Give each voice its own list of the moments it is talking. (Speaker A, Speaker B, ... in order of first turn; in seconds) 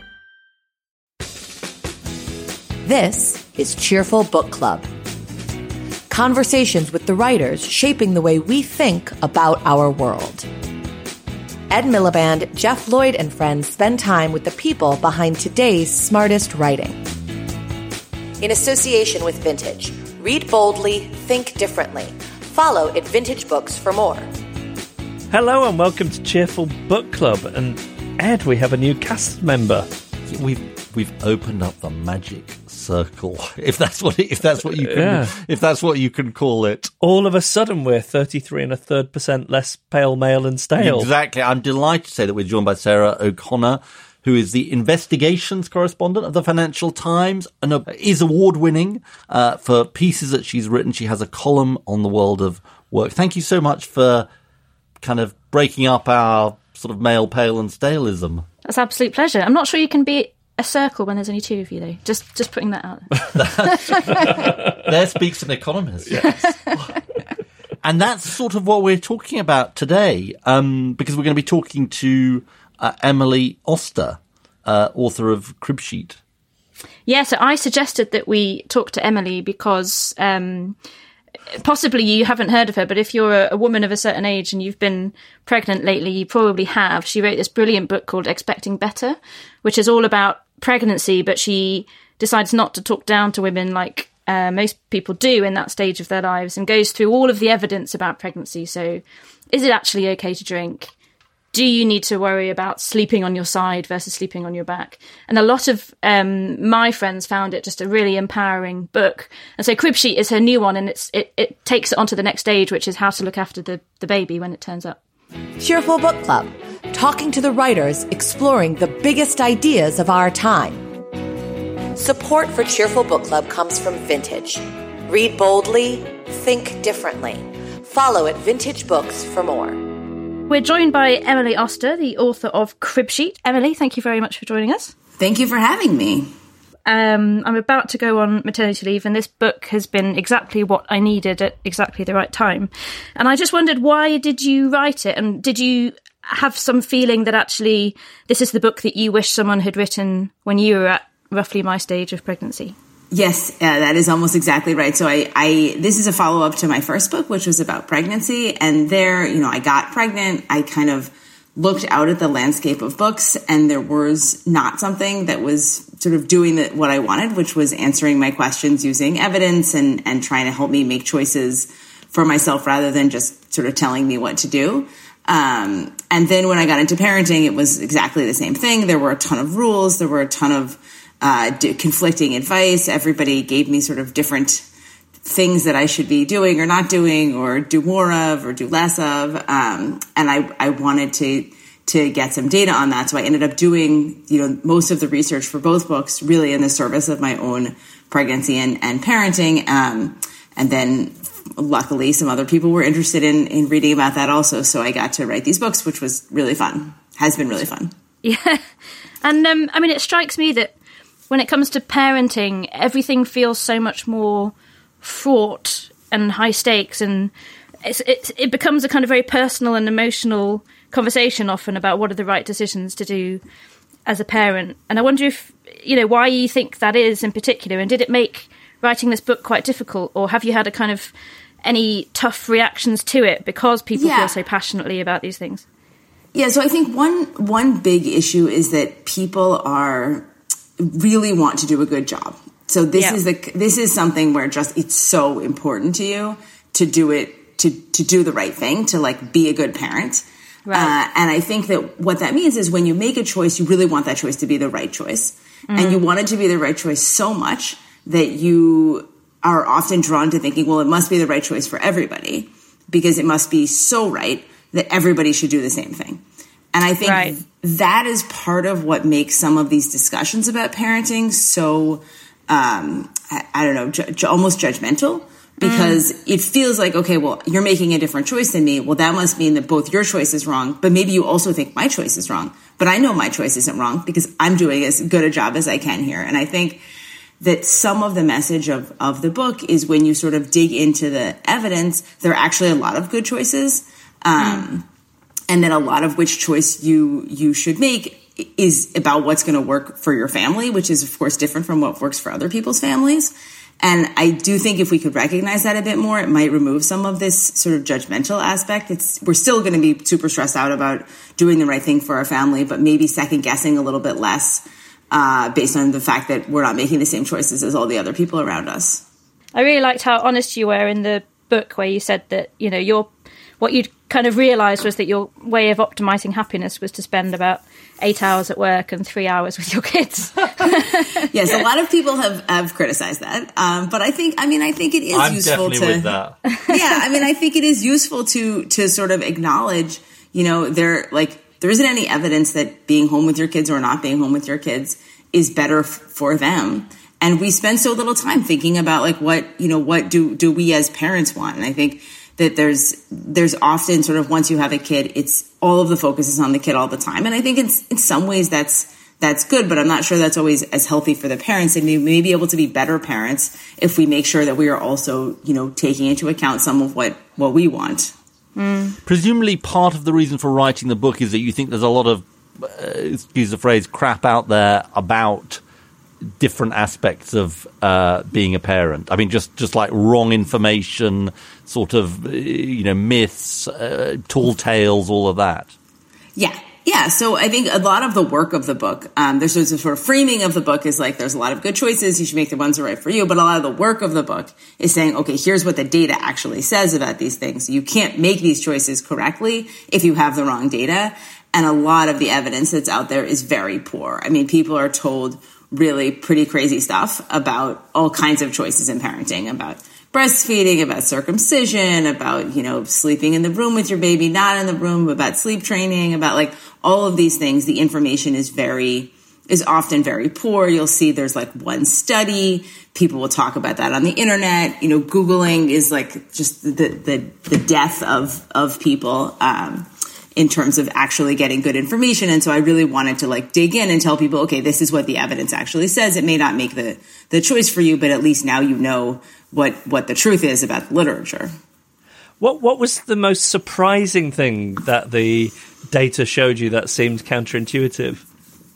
Speaker A: 2.8-4.9, 6.1-10.5, 11.7-17.0, 18.4-24.3, 115.6-120.8, 121.9-129.8
Speaker B: 25.3-29.9, 34.8-35.3, 37.0-41.1, 442.4-448.2
Speaker C: 30.3-36.9, 40.8-54.3, 55.0-58.4, 63.3-66.8, 67.8-76.2, 335.1-336.4, 369.1-375.6, 376.4-385.7
Speaker D: 58.6-63.1, 77.0-80.8, 81.5-100.9, 101.5-115.0, 130.5-134.9, 136.8-152.8, 208.2-208.6, 209.2-210.7, 211.3-217.3, 217.8-223.4, 224.1-231.1, 231.6-235.6, 250.7-250.9, 255.7-256.0, 267.0-267.3, 275.6-276.0, 294.4-294.6, 319.5-323.1, 323.6-331.3, 368.6-368.9
Speaker E: 135.2-136.3, 153.1-184.7, 185.2-207.9, 233.9-234.3, 236.3-240.3, 240.8-266.2, 266.7-286.8, 287.4-294.9, 295.5-319.0, 331.3-336.1, 336.7-368.1, 386.4-441.5